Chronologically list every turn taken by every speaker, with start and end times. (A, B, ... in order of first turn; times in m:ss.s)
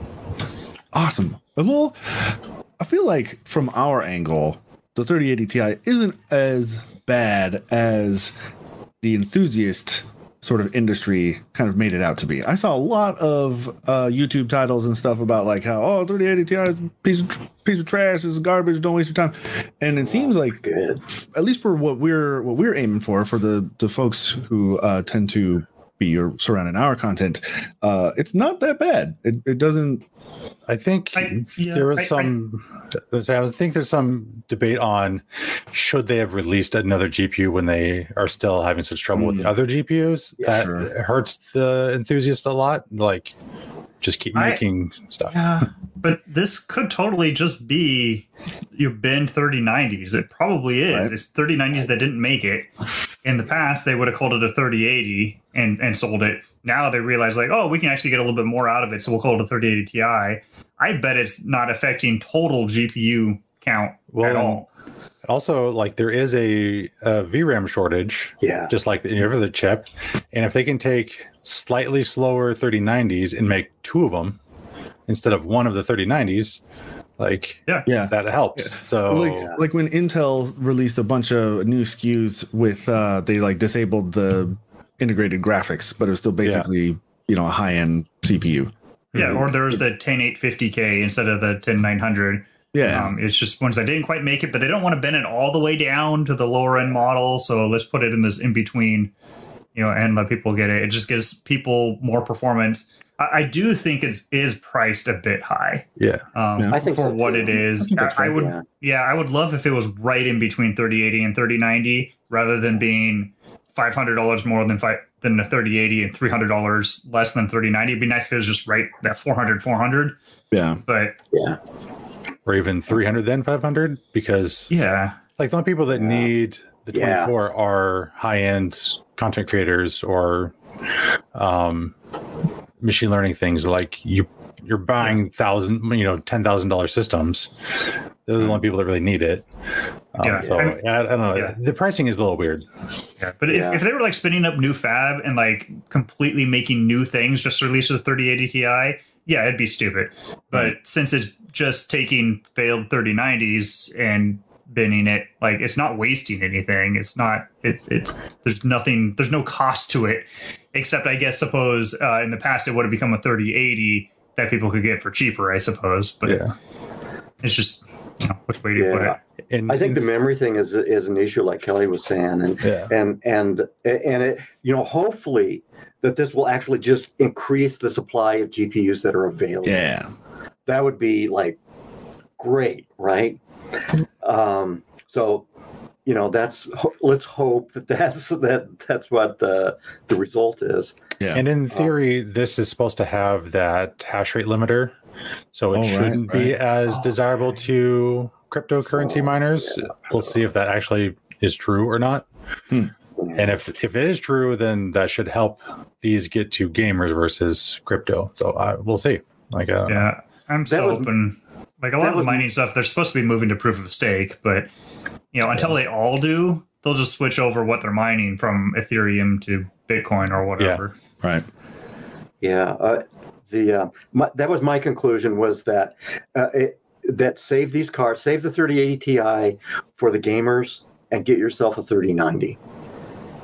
0:00.9-0:08.3 A
0:09.0-0:30.0 A
0:20.0-0:21.0 B
0:30.7-0:43.3 C
0:31.2-0:32.3 D
0:39.2-0:39.5 A
0:40.4-0:40.7 B
0:40.5-0:40.9 A
0:44.0-0:45.3 C
0:44.4-0:44.6 D
0:45.3-0:52.7 D
0:53.2-1:04.7 D
1:04.1-1:04.6 C
1:05.2-1:14.4 C
1:08.4-1:08.7 B
1:15.1-1:16.6 C
1:17.2-1:19.5 C
1:17.9-1:29.8 A
1:29.1-1:29.4 C
1:29.1-1:39.1 D
1:32.7-1:33.1 A
1:39.8-2:00.2 D
1:46.0-1:46.2 C
1:46.7-1:48.6 B
2:00.5-2:00.8 A
2:00.9-2:01.2 D
2:01.3-2:01.6 B
2:02.5-2:04.7 C
2:04.7-2:05.2 D
2:05.4-2:10.5 C
2:06.0-2:06.3 B
2:06.9-2:07.3 B
2:11.4-2:12.0 C
2:12.8-2:17.5 C
2:18.3-2:19.5 C
2:20.1-2:22.6 C
2:20.2-2:20.8 D
2:23.2-2:46.4 D
2:23.5-2:23.8 B
2:46.3-2:46.5 C
2:47.4-2:49.2 D
2:48.8-2:59.9 B
2:49.5-2:50.1 C
2:52.6-2:52.9 C
2:59.6-3:00.1 A
3:00.7-3:01.6 B
3:02.4-3:03.4 B
3:04.2-3:05.5 B
3:06.1-3:11.0 B
3:11.3-3:14.9 C
3:15.5-3:22.3 C
3:15.7-3:16.6 A
3:19.0-3:20.2 B
3:23.2-3:23.5 B
3:23.4-3:30.1 C
3:29.9-3:34.7 D
3:30.7-3:31.1 B
3:32.0-3:32.5 B
3:35.3-3:41.0 D
3:42.4-3:52.6 B